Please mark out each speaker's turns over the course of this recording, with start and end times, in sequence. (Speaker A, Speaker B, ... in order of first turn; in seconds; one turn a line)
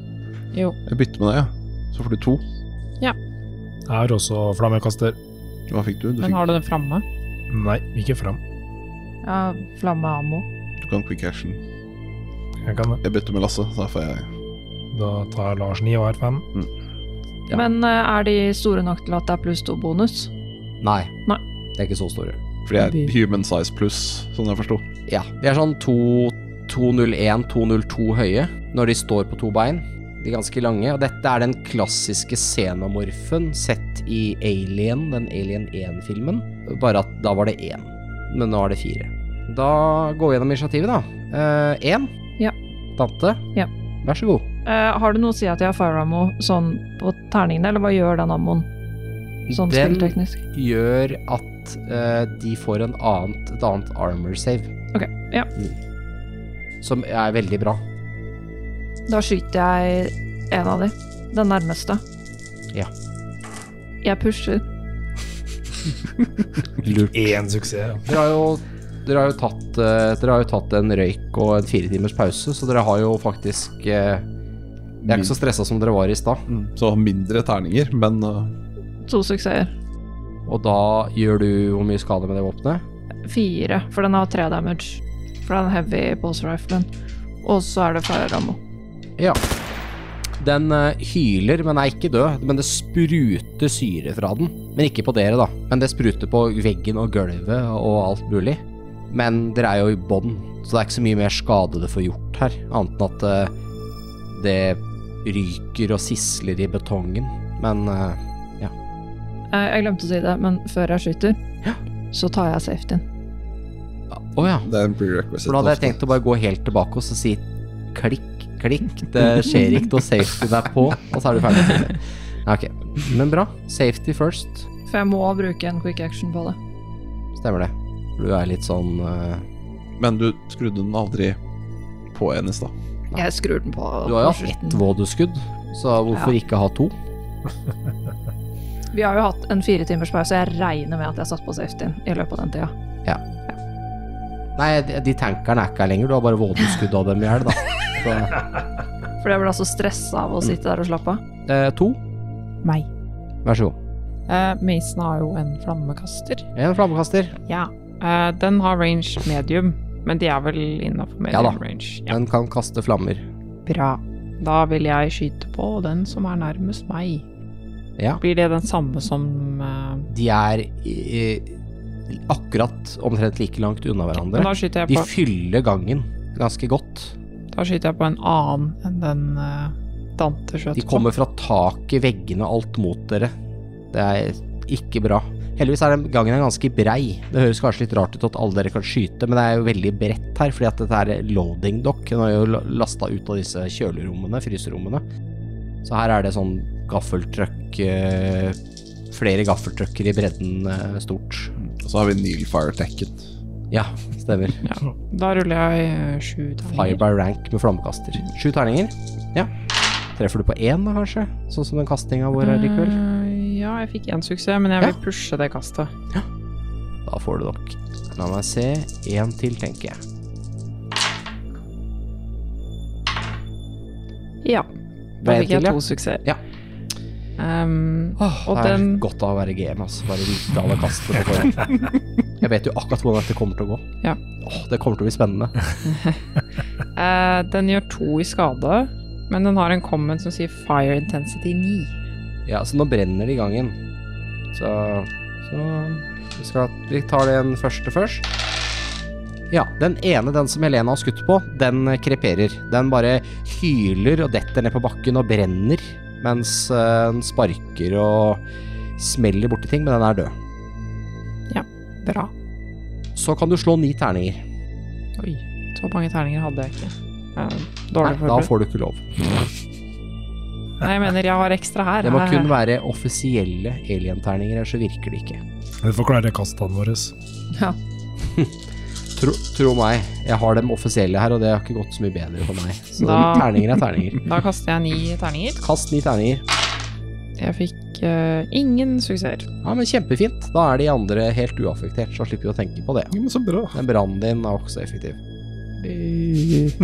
Speaker A: 0.8-2.4
Speaker B: 3.9-5.2
Speaker A: 5.7-6.4
Speaker C: 6.2-7.0
Speaker B: 7.5-8.4
Speaker D: 9.2-10.4
Speaker A: 10.8-11.6
Speaker B: 12.6-13.0
Speaker A: 13.0-14.3
Speaker B: 14.9-16.4
Speaker D: 17.5-20.3
Speaker E: 20.8-21.1
Speaker E: 21.8-22.4
Speaker A: 22.6-24.8
Speaker C: 22.8-23.1
Speaker E: 25.1-42.1
Speaker E: 43.0-43.4
Speaker E: 44.0-44.4
Speaker D: 44.6-48.7
Speaker E: 49.5-54.7
Speaker D: 49.5-50.4
Speaker D: 54.9-55.5
Speaker E: 56.8-57.8
Speaker D: 59.1-62.0
Speaker D: 64.0-64.6
Speaker E: 66.8-67.4
Speaker B: 67.1-68.1
Speaker E: 68.0-74.2
Speaker A: 75.0-75.4
Speaker E: 75.1-76.5
Speaker A: 76.5-78.5
Speaker D: 79.0-79.7
Speaker E: 80.5-82.8
Speaker D: 83.2-86.9
Speaker D: 87.4-88.6
Speaker E: 90.4-103.5
Speaker E: 104.3-108.7
Speaker D: 109.5-111.4
Speaker D: 112.1-113.0
Speaker E: 114.2-114.7
Speaker A: 114.4-116.0
Speaker E: 115.4-124.7
Speaker D: 124.8-126.6
Speaker E: 127.3-129.4
Speaker A: 130.0-131.4
Speaker A: 132.1-132.7
Speaker D: 133.1-134.8
Speaker E: 134.0-136.9
Speaker D: 138.9-142.7
Speaker E: 144.6-148.4
Speaker D: 149.2-151.2
Speaker E: 151.5-152.0
Speaker E: 153.4-153.8
Speaker C: 154.3-156.5
Speaker E: 156.6-157.4
Speaker C: 157.5-162.1
Speaker E: 161.3-163.2
Speaker C: 163.7-167.2
Speaker C: 168.2-170.1
Speaker E: 170.1-171.6
Speaker E: 172.1-177.1
Speaker C: 174.2-175.1
Speaker C: 177.5-181.1
Speaker E: 180.7-183.3
Speaker E: 183.9-195.0
Speaker E: 195.8-198.6
Speaker E: 199.1-201.5
Speaker A: 201.6-203.3
Speaker E: 203.7-204.6
Speaker C: 204.6-207.0
Speaker E: 206.7-209.5
Speaker E: 210.1-213.0
Speaker C: 212.4-215.9
Speaker E: 217.1-220.0
Speaker C: 225.2-226.2
Speaker E: 225.2-226.4
Speaker C: 227.4-229.0
Speaker E: 228.2-231.9
Speaker E: 232.4-233.8
Speaker E: 234.4-235.6
Speaker C: 235.8-236.2
Speaker C: 236.9-241.9
Speaker E: 242.4-243.8
Speaker E: 244.5-248.2
Speaker E: 249.5-258.4
Speaker E: 259.0-260.3
Speaker C: 261.5-262.3
Speaker E: 263.1-264.4
Speaker C: 265.2-268.5
Speaker E: 268.0-269.1
Speaker C: 270.8-272.5
Speaker E: 272.0-275.4
Speaker B: 275.8-277.1
Speaker E: 279.1-284.2
Speaker C: 283.0-285.6
Speaker E: 285.6-286.4
Speaker C: 287.4-289.5
Speaker E: 289.6-293.1
Speaker A: 293.1-293.8
Speaker E: 293.7-295.2
Speaker C: 295.8-296.7